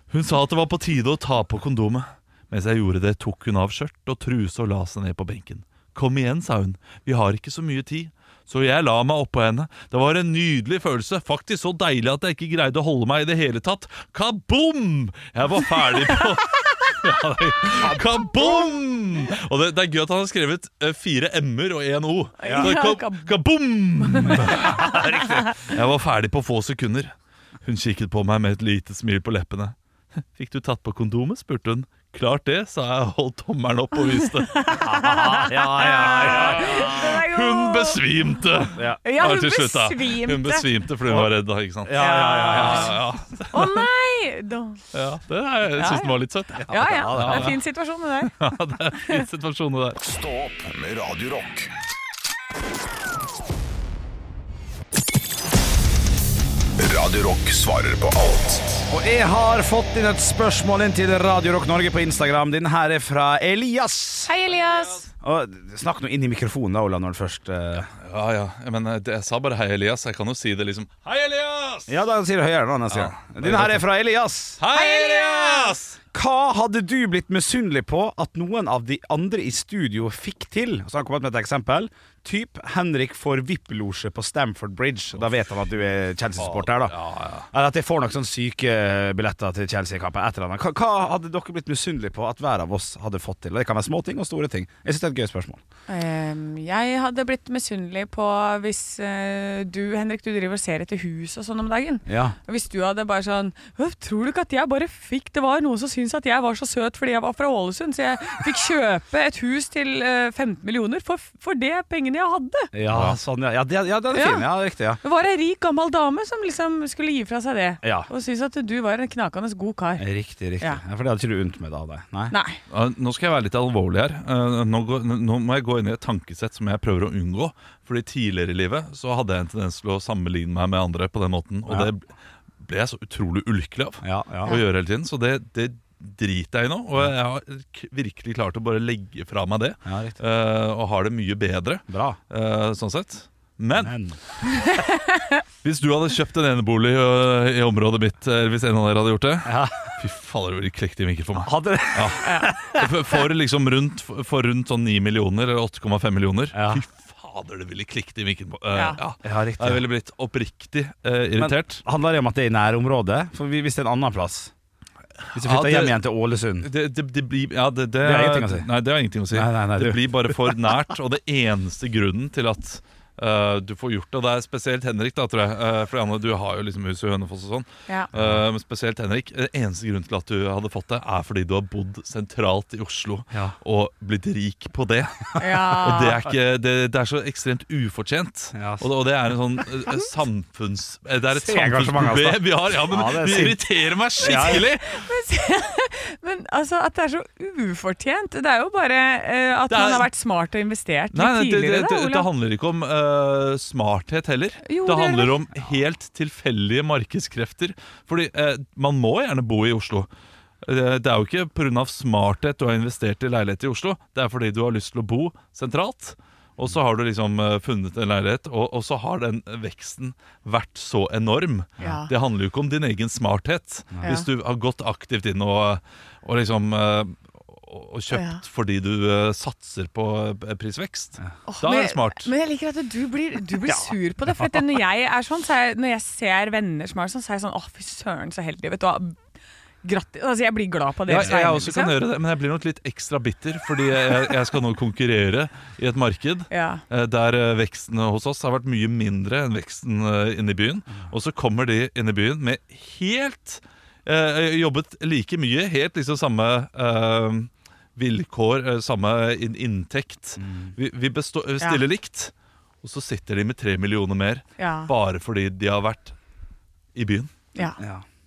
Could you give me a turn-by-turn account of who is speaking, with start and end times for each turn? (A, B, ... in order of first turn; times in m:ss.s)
0:00.1-0:25.0 A
0:22.4-0:23.3 B
0:22.4-0:22.7 C
0:24.0-0:24.6 B
0:24.2-0:25.5 C
0:25.7-0:27.1 A
0:27.6-0:29.8 A
0:30.4-0:34.8 A
0:34.4-0:38.0 B
0:34.8-0:37.2 C
0:36.1-0:43.8 A
0:38.8-0:39.0 C
0:39.0-0:40.7 B
0:41.1-0:43.0 C
0:42.0-0:42.9 B
0:43.5-0:44.8 B
0:44.9-0:47.6 A
0:45.7-0:46.2 B
0:46.6-0:47.6 C
0:46.7-0:48.3 B
0:48.3-0:50.0 A
0:50.0-0:51.7 D
0:56.8-0:58.8 D
0:58.9-1:04.3 C
1:04.3-1:05.1 B
1:04.5-1:05.0 A
1:05.2-1:07.9 C
1:08.0-1:12.0 A
1:11.9-1:14.6 C
1:12.9-1:13.8 A
1:14.6-1:16.0 A
1:14.7-1:15.7 B
1:16.1-1:27.0 C
1:26.4-1:27.5 A
1:27.5-1:35.6 C
1:35.9-1:52.7 B
1:42.1-1:42.4 C
1:52.7-1:55.0 C
1:52.9-1:53.2 A
1:54.1-1:54.5 B
1:55.0-2:00.0 B
1:57.8-1:58.1 C
2:00.0-2:02.4 C
2:02.3-2:02.6 B
2:02.7-2:12.1 A
2:12.6-2:24.0 A
2:14.0-2:14.6 C
2:19.9-2:20.2 C
2:21.9-2:22.2 C
2:23.8-2:24.2 C
2:24.7-2:25.4 B
2:25.6-2:41.8 A
2:29.4-2:29.9 C
2:31.4-2:32.8 C
2:32.2-2:32.6 B
2:36.5-2:36.8 C
2:38.7-2:39.0 B
2:39.2-2:39.8 C
2:41.4-2:44.5 C
2:45.3-2:46.0 A
2:45.4-2:46.7 C
2:46.6-3:15.1 A
2:48.0-2:48.7 C
2:49.3-2:50.6 C
2:58.1-2:58.4 C
3:05.4-3:06.2 B
3:08.5-3:08.9 C
3:11.3-3:13.6 C
3:14.2-3:14.6 C
3:14.2-3:22.3 B
3:19.7-3:20.1 A
3:21.1-3:30.1 A
3:24.6-3:25.3 B
3:30.6-3:52.3 A
3:41.8-3:42.1 B
3:48.1-3:48.4 B
3:51.5-3:59.2 B
3:59.8-4:02.0 B
4:01.1-4:22.3 A
4:06.5-4:06.8 B
4:20.4-4:20.8 C
4:22.8-4:26.2 A
4:24.6-4:24.9 B
4:27.0-4:27.3 A
4:27.8-4:28.0 C